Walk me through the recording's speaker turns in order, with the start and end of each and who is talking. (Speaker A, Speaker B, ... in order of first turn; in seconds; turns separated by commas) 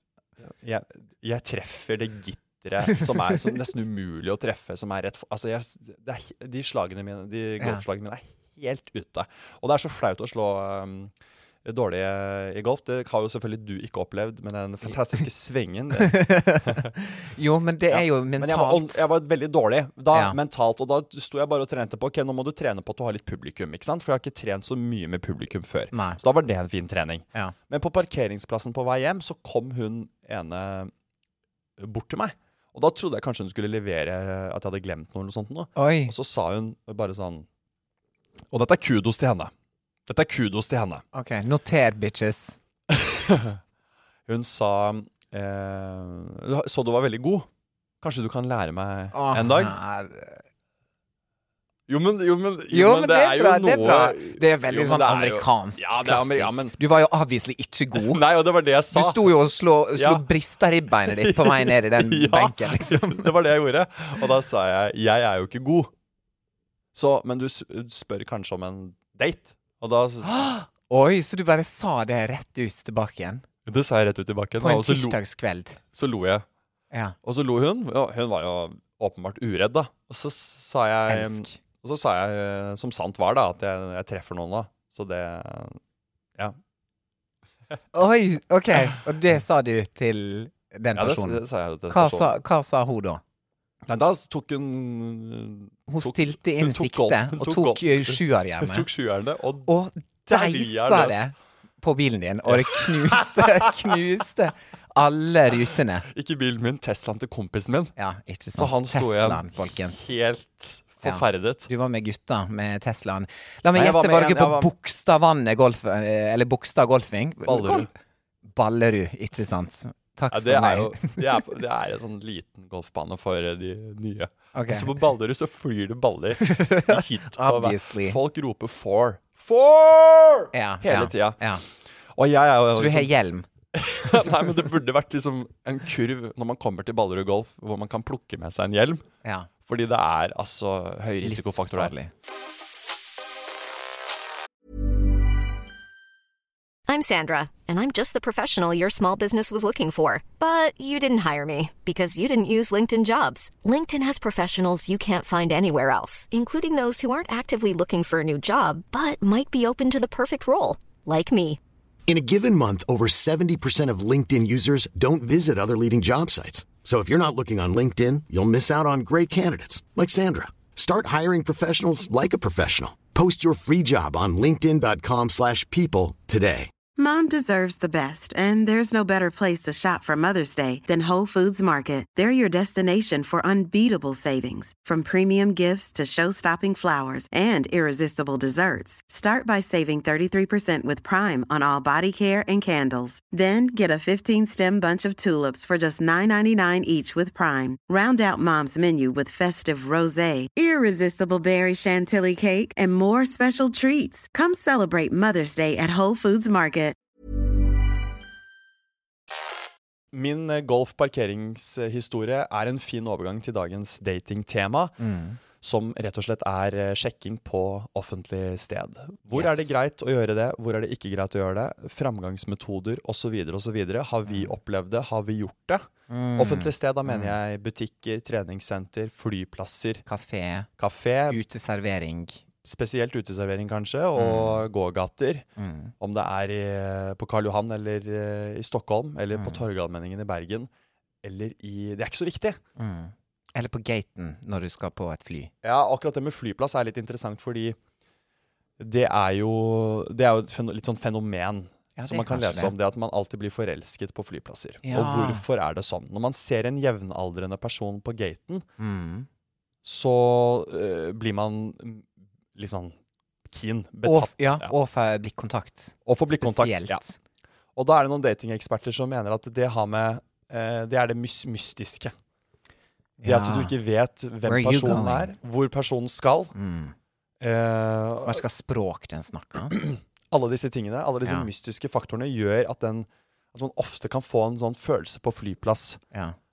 Speaker A: 0.4-11.1, Speaker A: 11.6-16.9, Speaker B: 16.0-19.0, Speaker A: 17.9-30.9, Speaker B: 20.1-20.4, Speaker B: 25.9-26.2, Speaker A: 31.8-37.5, Speaker B: 35.8-36.1, Speaker A: 38.5-39.5, Speaker A: 40.1-41.0, Speaker B: 41.1-42.6, Speaker A: 42.9-43.6, Speaker A: 44.3-47.5, Speaker A: 48.0-49.7, Speaker B: 49.1-50.4, Speaker A: 51.9-56.8, Speaker B: 52.7-58.2, Speaker A: 57.9-59.3, Speaker B: 58.9-63.3, Speaker A: 60.0-60.2, Speaker A: 61.1-65.9, Speaker A: 66.9-70.5, Speaker B: 70.2-73.4, Speaker A: 73.7-75.2, Speaker B: 74.6-75.8, Speaker A: 75.9-76.4, Speaker A: 77.2-85.8, Speaker B: 81.1-81.5, Speaker B: 87.9-93.2, Speaker A: 90.9-92.3, Speaker A: 93.9-99.7, Speaker B: 95.9-98.8, Speaker B: 99.7-106.1, Speaker A: 100.2-101.2, Speaker A: 102.5-103.7, Speaker A: 106.1-107.9, Speaker B: 108.0-110.1, Speaker A: 108.6-111.7, Speaker B: 111.0-117.9, Speaker A: 113.7-114.7, Speaker A: 117.5-117.9, Speaker B: 118.5-121.2, Speaker A: 120.3-131.5, Speaker B: 124.5-124.9, Speaker B: 126.4-128.2, Speaker B: 130.5-131.6, Speaker A: 132.1-133.1, Speaker B: 132.7-133.5, Speaker A: 133.7-139.0, Speaker B: 139.2-139.5, Speaker A: 139.6-141.9, Speaker B: 141.2-142.1, Speaker C: 146.9-161.6, Speaker D: 162.1-176.7, Speaker E: 176.9-206.9, Speaker A: 210.1-215.0, Speaker B: 215.0-215.4, Speaker A: 215.6-230.0, Speaker B: 219.3-219.7, Speaker B: 224.3-224.5, Speaker B: 226.1-227.3, Speaker B: 230.1-230.7, Speaker A: 230.8-231.4, Speaker B: 231.3-232.4, Speaker A: 232.6-235.4, Speaker B: 234.2-234.6, Speaker B: 235.6-235.9, Speaker A: 236.0-240.7, Speaker B: 239.3-239.6, Speaker A: 241.2-242.6, Speaker B: 242.8-245.5, Speaker A: 245.6-247.8, Speaker A: 248.8-258.6, Speaker B: 252.0-252.7, Speaker B: 254.8-255.4, Speaker B: 258.8-259.3, Speaker A: 259.8-262.9, Speaker A: 263.5-264.7, Speaker B: 264.0-267.2, Speaker A: 266.1-267.0, Speaker A: 267.8-272.1, Speaker B: 273.2-273.7, Speaker A: 273.2-276.5, Speaker B: 274.4-275.3, Speaker B: 276.5-276.9, Speaker A: 277.4-278.4, Speaker B: 278.2-279.8, Speaker A: 279.7-286.0